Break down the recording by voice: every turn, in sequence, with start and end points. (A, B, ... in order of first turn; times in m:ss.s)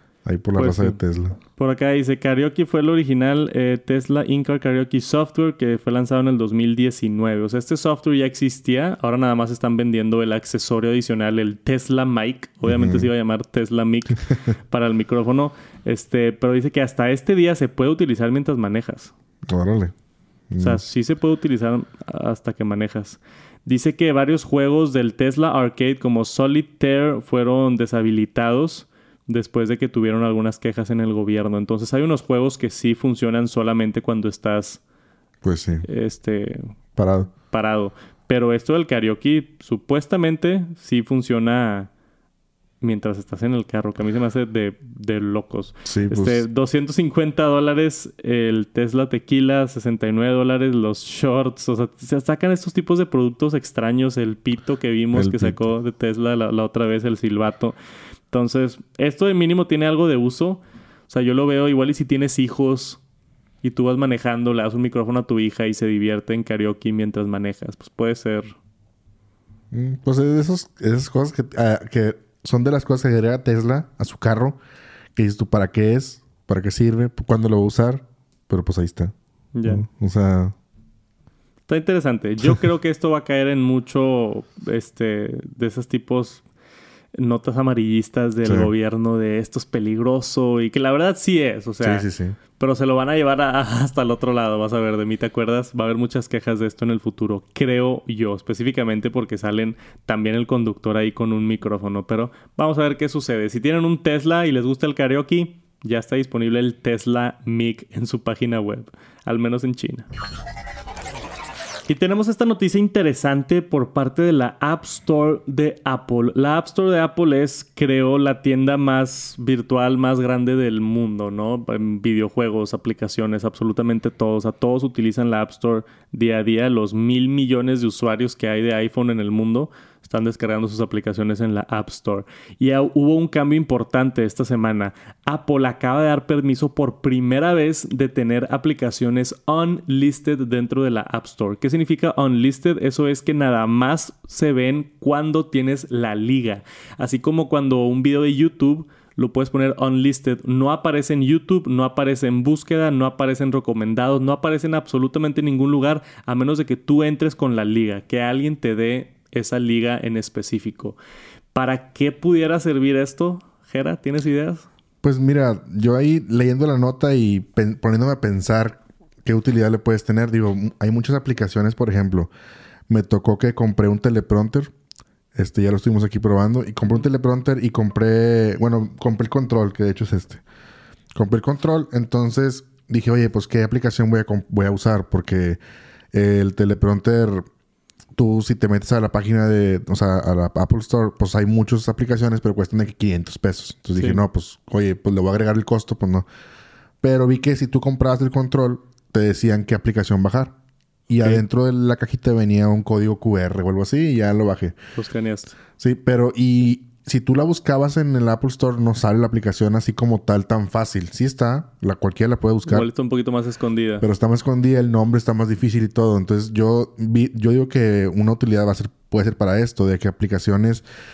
0:00.2-0:01.4 A
0:00.6-0:01.0 B
0:01.6-0:19.1 B
0:12.7-0:13.1 A
0:19.5-0:19.9 A
0:20.5-0:20.8 A
0:20.6-0:34.8 B
0:35.4-0:35.9 A
0:35.9-0:36.7 B
0:37.0-0:37.3 A
0:37.5-0:41.9 B
0:42.8-0:57.8 B
0:45.8-0:46.4 A
0:55.1-0:55.6 A
0:58.3-1:03.0 B
1:03.6-1:08.5 B
1:09.7-1:14.6 A
1:15.2-1:19.1 A
1:19.6-1:19.8 B
1:19.7-1:20.6 A
1:21.7-1:26.4 B
1:27.2-1:32.1 B
1:28.5-1:28.7 A
1:31.8-1:32.4 A
1:32.6-1:50.1 B
1:51.9-2:41.0 B
2:41.5-2:44.7 B
2:45.0-2:52.3 A
2:52.9-2:54.7 A
2:55.4-3:00.4 A
3:01.2-3:05.6 A
3:06.1-3:07.5 A
3:08.2-3:16.3 A
3:17.0-3:20.6 A
3:21.1-3:24.8 A
3:25.0-3:25.6 B
3:25.8-3:32.9 A
3:32.7-3:34.0 B
3:34.0-3:40.8 A